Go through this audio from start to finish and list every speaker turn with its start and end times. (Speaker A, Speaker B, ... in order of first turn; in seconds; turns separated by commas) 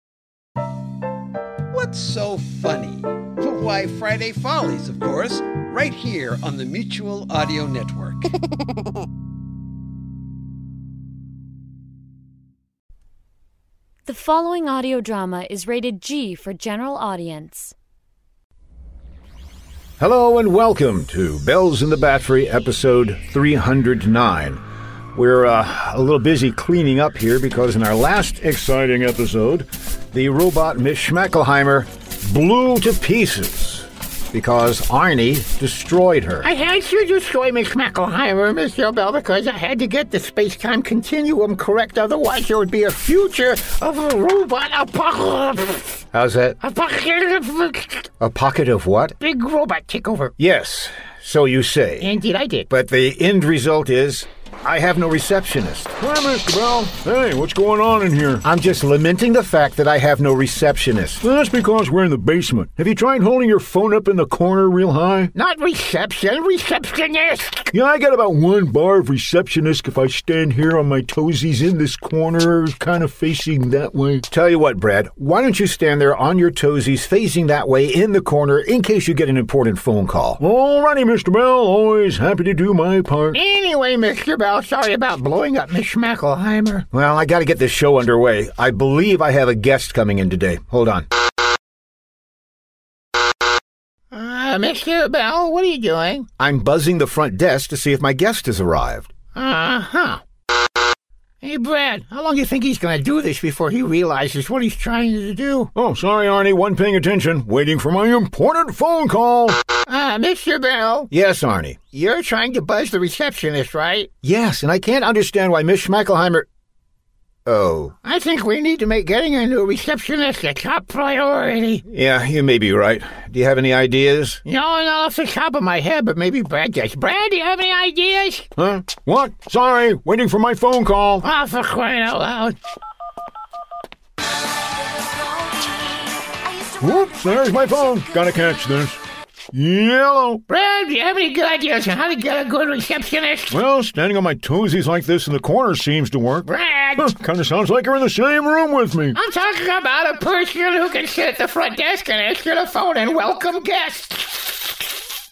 Speaker A: 1.7-8.3, Speaker B: 14.1-17.6, Speaker C: 20.0-24.6, Speaker C: 25.1-36.5, Speaker D: 36.4-46.0, Speaker C: 46.1-46.6, Speaker D: 46.6-48.1, Speaker C: 48.2-49.1, Speaker D: 49.2-50.3, Speaker C: 50.4-52.1, Speaker D: 52.0-52.7, Speaker C: 52.7-55.9, Speaker E: 55.9-58.4, Speaker C: 58.4-61.2, Speaker E: 61.2-65.3, Speaker D: 65.3-67.7, Speaker E: 67.7-74.2, Speaker C: 74.3-80.4, Speaker E: 80.4-83.4, Speaker D: 83.3-86.8, Speaker C: 86.9-91.0, Speaker D: 94.1-96.3, Speaker C: 96.4-99.1, Speaker D: 99.3-100.2, Speaker D: 101.4-105.7, Speaker E: 105.8-109.6, Speaker C: 106.3-107.4, Speaker D: 109.9-111.1, Speaker C: 111.1-111.8, Speaker D: 111.9-114.1, Speaker C: 114.2-116.5, Speaker C: 117.5-117.9, Speaker D: 118.0-121.8, Speaker C: 121.8-124.4, Speaker D: 124.4-128.5, Speaker E: 128.6-131.2, Speaker D: 131.2-132.6, Speaker E: 136.8-139.0, Speaker E: 139.5-140.4, Speaker D: 140.5-143.6, Speaker E: 143.5-149.2, Speaker D: 146.4-147.1, Speaker D: 149.1-155.0